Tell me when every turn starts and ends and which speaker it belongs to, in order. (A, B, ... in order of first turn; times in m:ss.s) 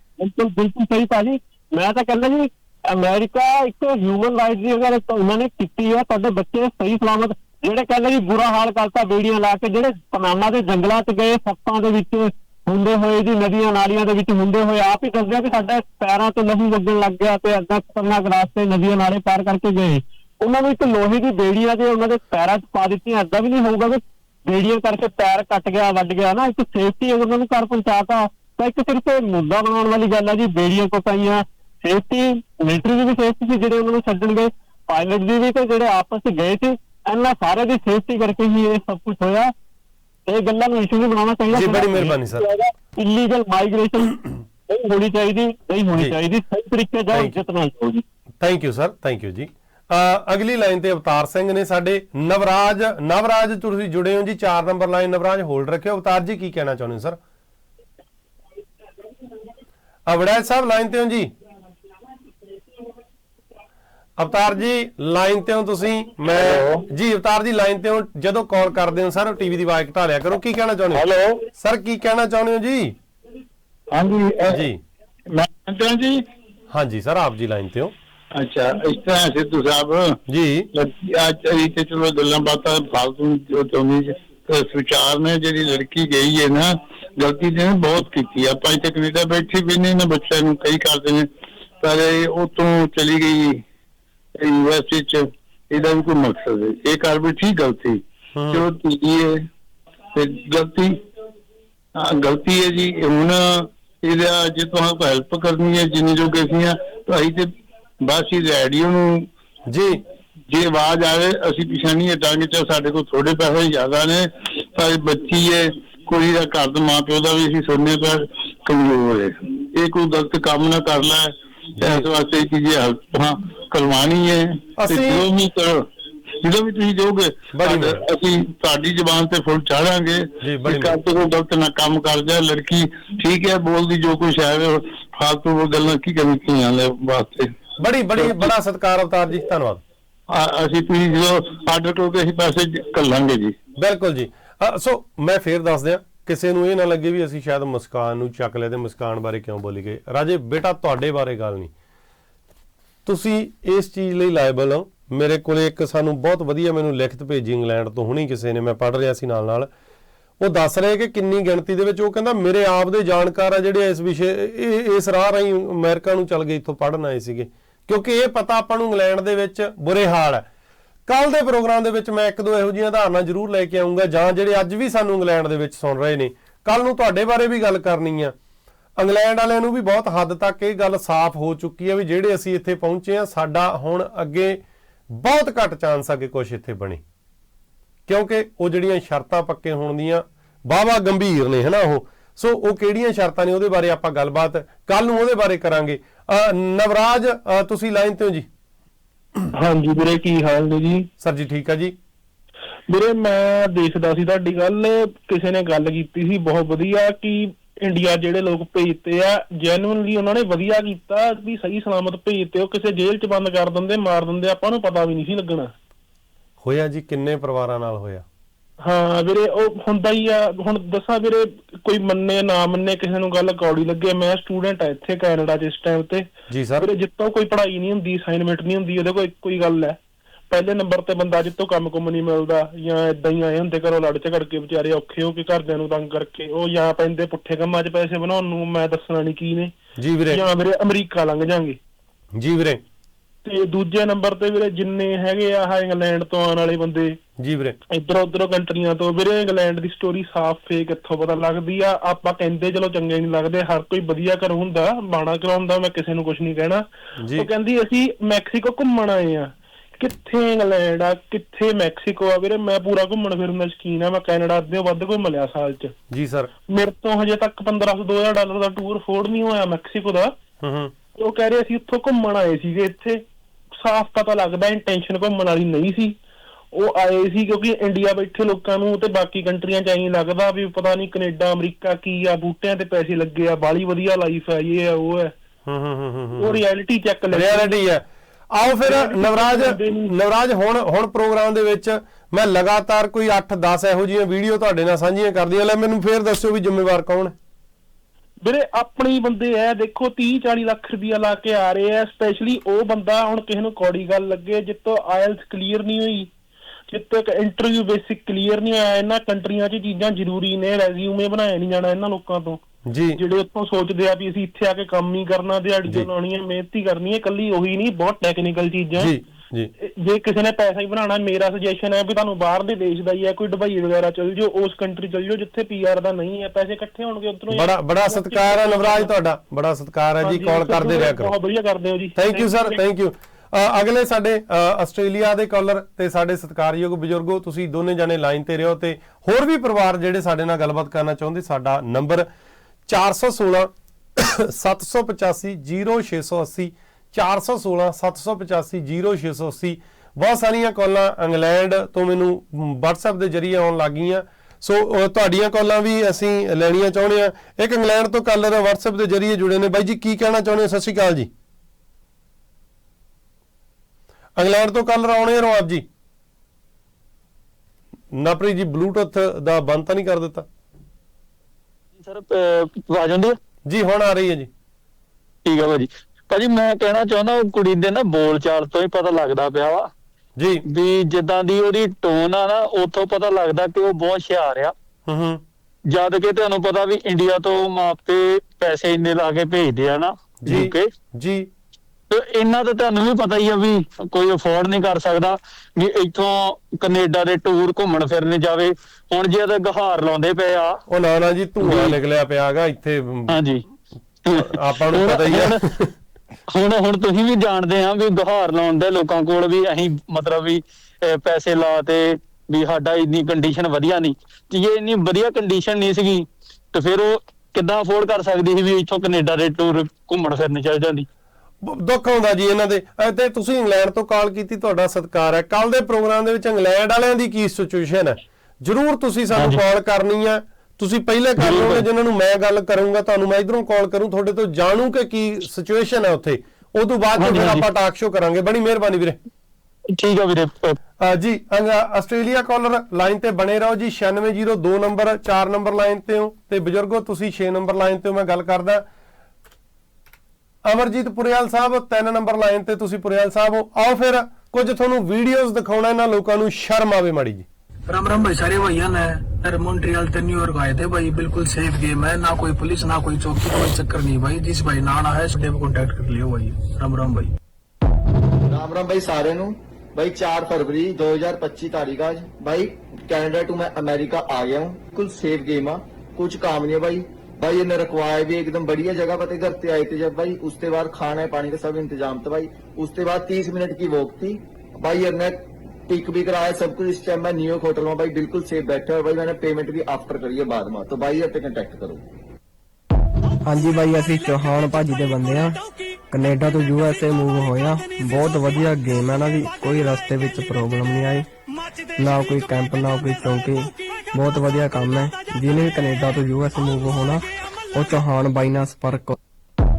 0:00.2-0:39.5 A
0:40.3-0:48.0 A
0:41.5-0:42.4 B
0:48.4-0:57.2 B
1:00.1-1:01.3 B
1:04.2-1:13.0 B
1:13.9-1:14.6 C
1:14.5-1:14.8 B
1:15.3-1:16.2 C
1:16.7-1:17.9 B
1:18.3-1:20.2 C
1:20.3-1:20.7 B
1:20.7-1:31.3 C
1:31.8-1:33.6 C
1:34.4-1:39.4 C
1:38.3-1:38.6 B
1:40.1-1:41.0 C
1:42.0-1:47.5 C
1:48.0-1:49.3 C
1:49.7-1:50.0 B
1:50.5-2:05.9 C
2:01.8-2:02.1 B
2:04.8-2:05.2 B
2:06.4-2:17.7 C
2:07.5-2:08.0 B
2:10.4-2:11.0 B
2:17.8-2:19.8 B
2:20.3-2:23.6 C
2:23.8-2:31.7 B
2:33.1-2:39.7 B
2:40.4-2:50.5 B
2:51.1-2:58.3 B
2:59.0-3:07.0 B
3:08.1-3:18.5 B
3:19.5-3:21.1 D
3:21.2-3:21.9 B
3:22.9-3:35.7 D
3:36.6-3:38.2 B
3:38.8-3:46.3 D
3:46.5-3:46.9 B
3:46.8-3:50.0 D
3:50.5-3:59.7 D
4:00.0-4:00.4 B
4:00.3-4:01.8 D
4:02.3-4:02.8 B
4:03.4-4:07.2 D
4:07.4-4:07.8 B
4:07.9-4:25.9 D
4:17.2-4:17.5 B
4:26.1-4:26.5 B
4:26.7-4:30.3 D
4:30.6-4:30.9 B
4:31.2-4:33.2 D
4:33.8-4:36.1 D
4:36.7-4:45.3 D
4:45.6-4:46.6 B
4:46.4-4:47.7 D
4:47.3-4:57.3 B
4:48.8-4:50.1 D
4:58.4-5:06.3 D
5:06.9-5:12.6 D
5:12.8-5:13.2 B
5:13.2-5:19.1 D
5:19.0-5:19.7 B
5:19.8-5:29.1 D
5:27.5-5:31.3 B
5:30.2-5:32.8 D
5:32.2-5:42.3 B
5:42.9-6:01.3 B
6:04.4-6:05.8 B
6:08.1-6:10.5 B
6:12.0-6:13.4 E
6:13.6-6:14.5 B
6:15.4-6:19.9 E
6:20.4-6:20.6 B
6:20.7-6:24.7 E
6:25.1-6:25.4 B
6:25.9-6:30.9 E
6:30.4-6:31.5 B
6:32.1-6:40.8 E
6:40.9-6:43.4 B
6:41.6-6:41.9 E
6:43.3-6:43.6 E
6:44.2-6:45.6 E
6:44.3-6:45.9 B
6:46.5-7:01.1 E
7:01.6-7:19.2 B
7:09.4-7:09.6 E
7:11.4-7:11.8 E
7:17.2-7:17.6 E
7:19.9-7:20.8 E
7:21.0-7:28.8 B
7:30.6-7:37.4 B
7:37.9-7:47.3 F
7:48.4-8:12.0 G
8:13.4-8:15.6 H
8:16.1-8:21.3 H
8:22.0-8:29.2 H